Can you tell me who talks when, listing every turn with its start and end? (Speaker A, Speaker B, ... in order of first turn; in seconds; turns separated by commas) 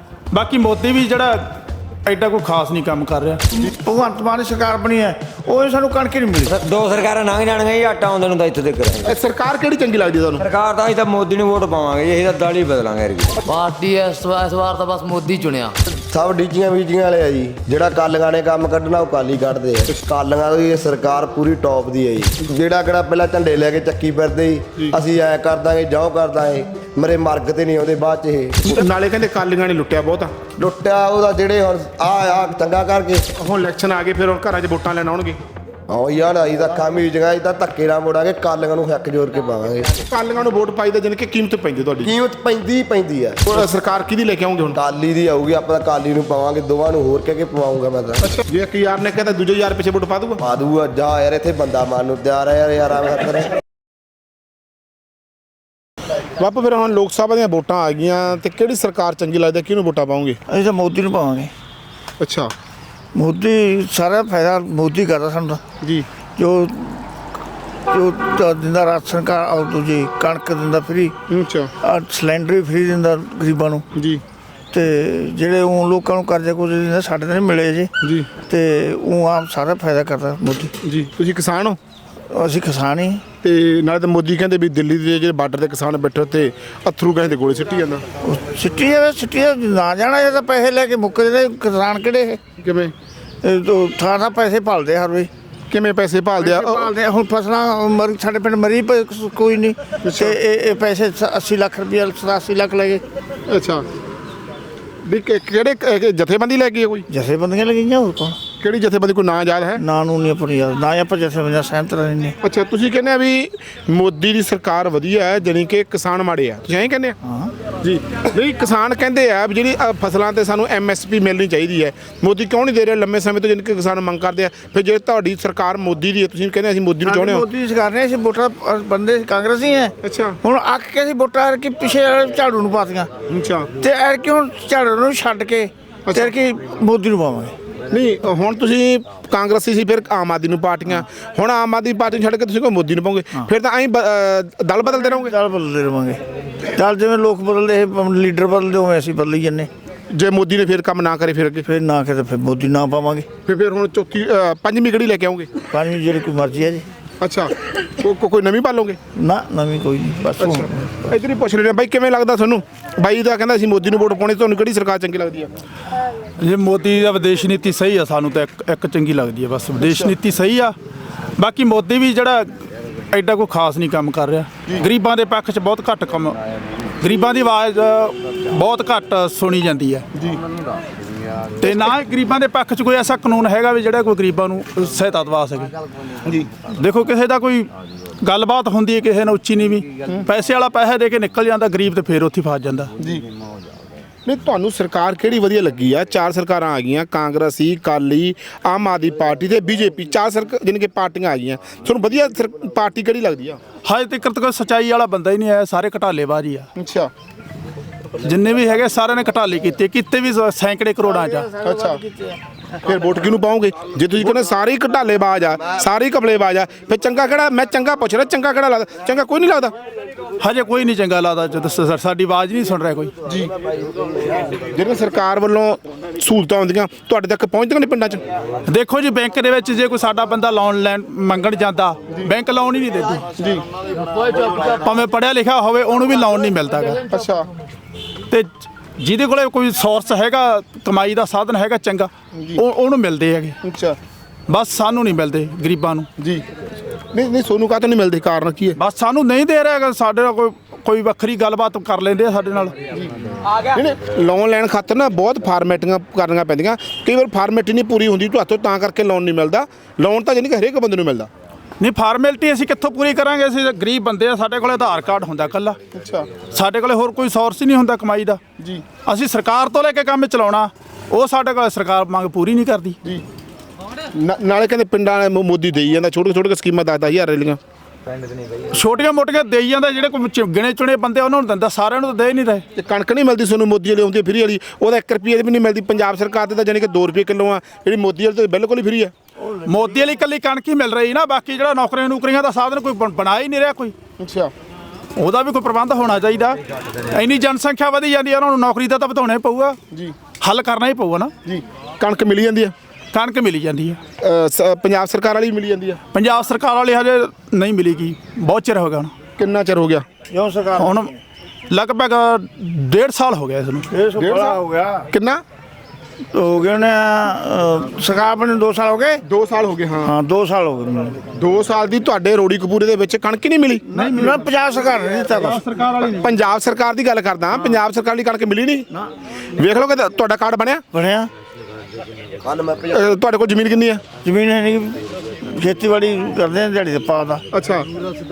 Speaker A: 0.3-1.4, Speaker A: 2.0-3.4, Speaker B: 3.7-6.5, Speaker C: 6.5-9.2, Speaker D: 9.0-10.4, Speaker C: 10.4-13.4, Speaker E: 13.4-15.7, Speaker F: 15.9-28.9, Speaker D: 28.7-30.3, Speaker F: 30.6-33.2, Speaker D: 33.4-35.4, Speaker F: 35.9-39.9, Speaker D: 40.1-42.1, Speaker F: 42.0-43.5, Speaker D: 43.5-44.8, Speaker F: 44.7-48.2, Speaker D: 48.2-50.4, Speaker F: 50.4-53.5, Speaker D: 56.4-60.4, Speaker B: 60.5-61.5, Speaker D: 62.2-62.5, Speaker B: 63.1-65.6, Speaker D: 65.8-66.0, Speaker B: 66.3-67.0, Speaker B: 67.9-71.1, Speaker D: 71.3-71.7, Speaker B: 71.8-73.8, Speaker D: 73.9-74.2, Speaker B: 74.7-77.9, Speaker D: 78.0-78.3, Speaker B: 78.4-80.7, Speaker D: 80.8-81.8, Speaker B: 82.3-83.2, Speaker D: 83.4-88.0, Speaker B: 88.2-92.4, Speaker D: 92.6-92.9, Speaker B: 93.4-95.3, Speaker D: 95.7-96.9, Speaker B: 96.5-103.0, Speaker D: 100.0-100.4, Speaker D: 103.5-103.8, Speaker D: 105.0-107.1, Speaker B: 107.1-108.4, Speaker D: 108.6-109.8, Speaker B: 109.8-112.3, Speaker D: 112.4-117.1, Speaker D: 117.8-127.4, Speaker B: 127.1-133.1, Speaker D: 130.0-130.4, Speaker D: 133.3-133.7, Speaker B: 133.8-137.5, Speaker D: 136.1-136.3, Speaker D: 137.9-145.3, Speaker B: 145.3-146.2, Speaker B: 146.8-149.7, Speaker D: 150.1-151.7, Speaker B: 151.7-153.3, Speaker D: 153.4-155.5, Speaker B: 155.7-156.8, Speaker D: 157.2-159.0, Speaker B: 159.2-160.6, Speaker D: 160.4-165.5, Speaker A: 166.4-170.7, Speaker D: 169.8-170.1, Speaker A: 171.4-172.5, Speaker A: 173.1-176.4, Speaker A: 177.0-180.1, Speaker A: 181.6-185.7, Speaker A: 186.7-187.7, Speaker A: 188.2-192.9, Speaker D: 194.2-203.6, Speaker A: 203.8-206.7, Speaker D: 206.8-207.1, Speaker A: 208.2-211.5, Speaker D: 211.6-212.0, Speaker B: 211.7-212.3, Speaker D: 212.8-219.7, Speaker A: 220.4-223.1, Speaker D: 223.2-223.5, Speaker D: 224.7-228.2, Speaker A: 228.7-233.3, Speaker D: 233.4-233.6, Speaker A: 234.5-237.0, Speaker D: 237.1-237.5, Speaker A: 239.0-243.6, Speaker D: 242.3-242.6, Speaker D: 243.6-244.0, Speaker A: 244.5-246.1, Speaker D: 246.2-246.4, Speaker D: 247.1-248.8, Speaker A: 248.8-252.7, Speaker D: 253.7-261.3, Speaker A: 261.8-265.8, Speaker D: 265.9-266.3, Speaker A: 266.5-268.4, Speaker D: 268.6-268.8, Speaker A: 269.0-272.9, Speaker D: 274.1-277.6, Speaker A: 278.7-282.6, Speaker D: 282.8-289.1, Speaker A: 289.6-293.9, Speaker D: 294.2-294.5, Speaker A: 295.2-296.6, Speaker A: 297.1-299.8, Speaker A: 300.4-301.3, Speaker D: 301.4-302.7, Speaker A: 303.1-304.0, Speaker D: 304.2-306.0, Speaker A: 306.1-309.1, Speaker D: 309.4-310.0, Speaker B: 310.3-310.9, Speaker A: 310.8-311.1, Speaker A: 311.7-313.9, Speaker B: 313.9-315.0, Speaker D: 314.2-314.6, Speaker D: 315.1-315.4, Speaker B: 316.3-319.2, Speaker D: 319.2-320.1, Speaker B: 320.1-321.1, Speaker D: 321.3-323.9, Speaker A: 323.9-324.4, Speaker B: 324.2-325.5, Speaker A: 325.4-326.2, Speaker D: 326.2-328.9, Speaker D: 329.6-330.8, Speaker B: 330.9-331.3, Speaker F: 332.4-333.0, Speaker D: 332.9-334.0, Speaker B: 334.2-337.4, Speaker D: 337.5-337.9